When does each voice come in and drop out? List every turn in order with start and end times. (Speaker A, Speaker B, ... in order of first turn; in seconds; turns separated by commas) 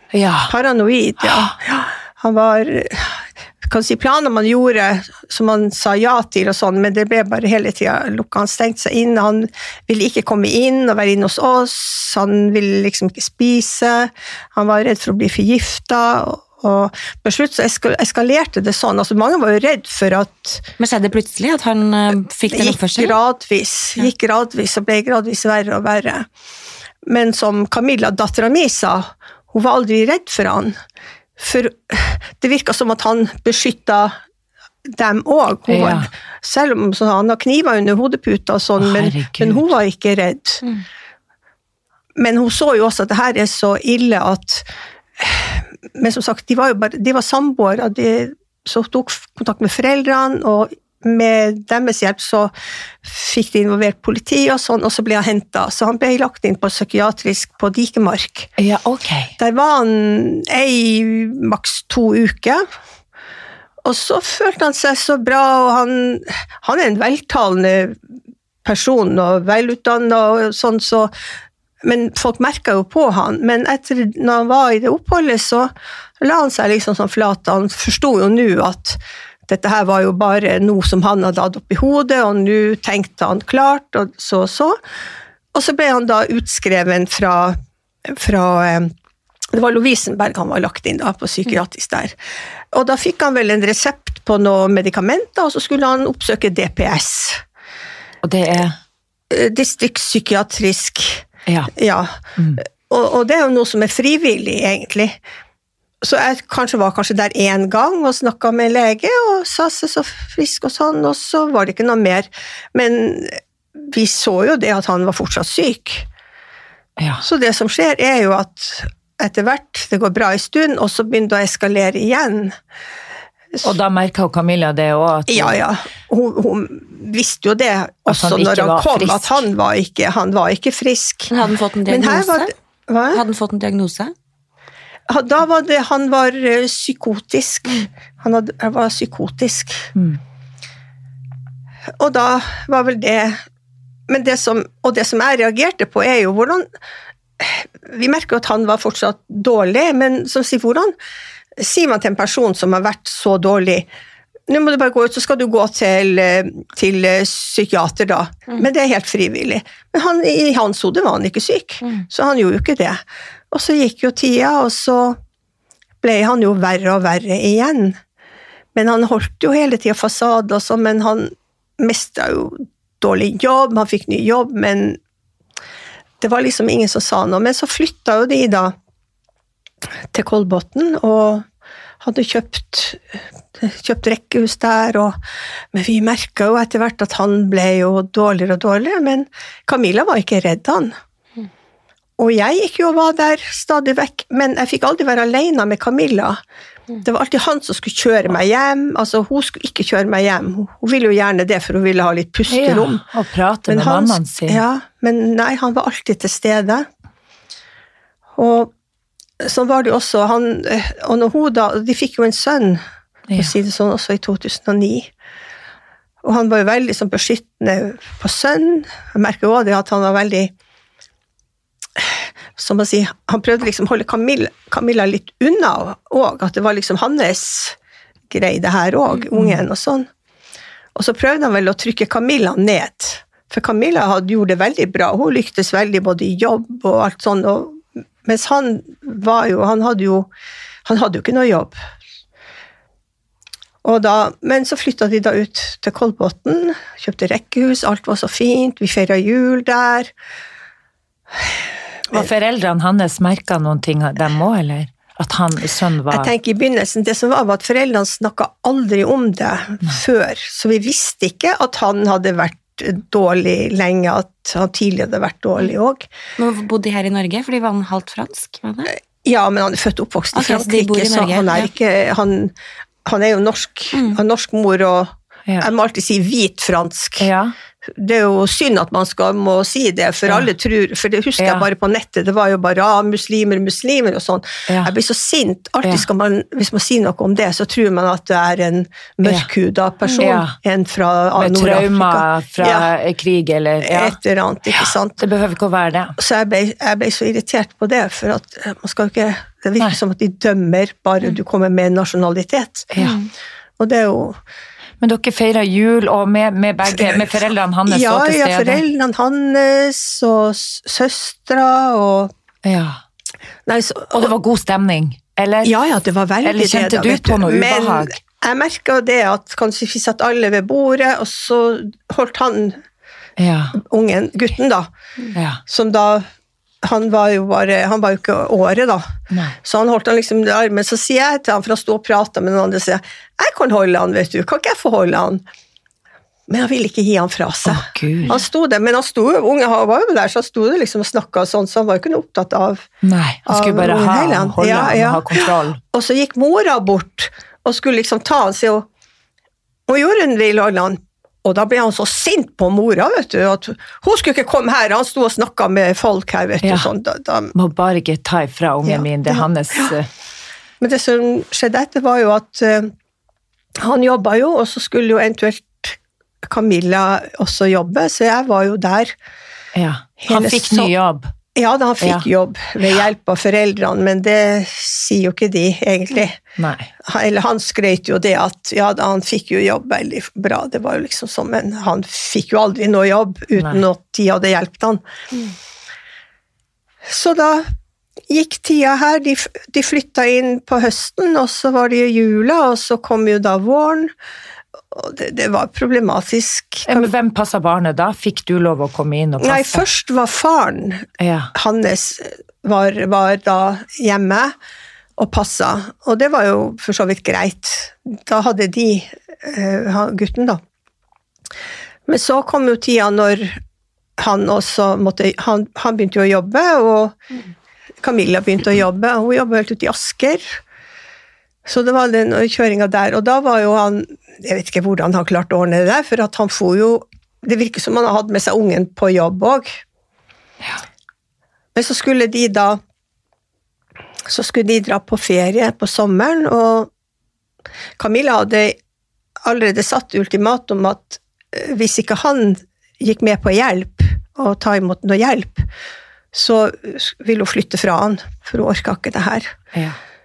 Speaker A: 0.1-0.5, Speaker B: 0.5-20.7, Speaker A: 1.2-1.5, Speaker C: 20.8-23.1, Speaker B: 22.5-26.3, Speaker B: 27.1-30.8, Speaker B: 31.4-34.2, Speaker B: 34.9-40.6, Speaker A: 35.7-36.1, Speaker A: 38.8-39.7, Speaker B: 42.2-44.7, Speaker B: 45.2-52.5, Speaker B: 53.0-58.5, Speaker A: 58.6-59.3, Speaker B: 59.4-62.6, Speaker B: 63.8-68.0, Speaker B: 68.6-71.1, Speaker B: 71.8-84.8, Speaker B: 85.5-88.9, Speaker B: 89.5-92.1, Speaker B: 92.7-97.4, Speaker A: 98.2-98.8, Speaker B: 99.3-105.2, Speaker B: 106.0-116.1, Speaker A: 117.0-117.2, Speaker B: 117.2-122.5, Speaker A: 123.6-125.6, Speaker B: 125.3-131.3, Speaker A: 128.1-129.4, Speaker C: 131.3-132.5, Speaker B: 131.9-133.2, Speaker C: 133.1-134.1, Speaker B: 135.1-139.9, Speaker B: 142.0-143.4, Speaker B: 144.1-146.7, Speaker B: 147.4-150.9, Speaker B: 151.6-153.9, Speaker B: 154.5-165.2, Speaker B: 166.0-168.0, Speaker B: 168.7-175.0, Speaker B: 176.2-178.7, Speaker B: 180.1-181.4, Speaker B: 182.0-185.2, Speaker B: 185.7-190.9, Speaker B: 192.2-196.4, Speaker B: 197.0-203.0, Speaker A: 202.5-204.6, Speaker B: 203.7-206.9, Speaker B: 208.4-208.7, Speaker B: 209.4-212.8, Speaker B: 213.3-215.1, Speaker B: 216.2-220.5, Speaker B: 222.0-227.8, Speaker B: 228.3-230.1, Speaker A: 229.3-229.6, Speaker B: 230.9-240.3, Speaker B: 240.8-241.7, Speaker B: 243.8-250.1, Speaker A: 252.1-256.3, Speaker B: 256.1-266.1, Speaker C: 266.4-268.9, Speaker B: 268.9-272.5, Speaker C: 270.3-271.7, Speaker B: 273.0-277.3, Speaker C: 273.9-274.2, Speaker A: 277.2-277.5, Speaker B: 277.9-292.9, Speaker A: 281.4-281.7, Speaker A: 289.2-289.5, Speaker A: 290.2-290.5, Speaker A: 291.4-294.1, Speaker B: 293.8-295.2, Speaker A: 294.8-296.1, Speaker B: 296.2-302.9, Speaker A: 302.9-303.2, Speaker C: 303.0-303.3, Speaker B: 303.8-304.4, Speaker A: 305.0-308.8, Speaker B: 307.0-307.3, Speaker B: 307.9-312.3, Speaker A: 312.6-313.0, Speaker B: 313.6-314.3, Speaker A: 314.1-315.7, Speaker B: 315.6-322.8, Speaker A: 316.4-318.2, Speaker A: 323.4-323.8, Speaker B: 323.7-324.9, Speaker A: 325.3-325.6, Speaker B: 325.7-326.3, Speaker B: 326.8-329.1, Speaker B: 329.6-335.4, Speaker B: 336.5-342.9, Speaker A: 337.6-338.4, Speaker A: 343.0-345.8, Speaker B: 343.5-348.9, Speaker B: 349.9-357.5, Speaker A: 356.6-356.9, Speaker A: 357.5-360.1, Speaker B: 358.8-359.4, Speaker B: 360.8-362.9, Speaker B: 363.8-369.1, Speaker A: 369.7-371.3, Speaker B: 370.2-370.9, Speaker B: 371.5-376.4, Speaker A: 372.0-372.2, Speaker A: 376.6-376.9, Speaker B: 377.0-385.0, Speaker B: 387.0-387.7, Speaker B: 388.3-394.1, Speaker B: 394.9-397.1, Speaker A: 396.9-399.8, Speaker B: 399.4-404.5, Speaker A: 401.2-401.5, Speaker B: 405.2-410.6, Speaker B: 412.1-413.6, Speaker B: 414.2-417.2, Speaker B: 418.0-420.6, Speaker B: 421.6-429.8, Speaker B: 431.7-432.8, Speaker B: 434.3-436.9, Speaker B: 438.0-438.8, Speaker B: 439.4-445.7, Speaker B: 446.3-449.5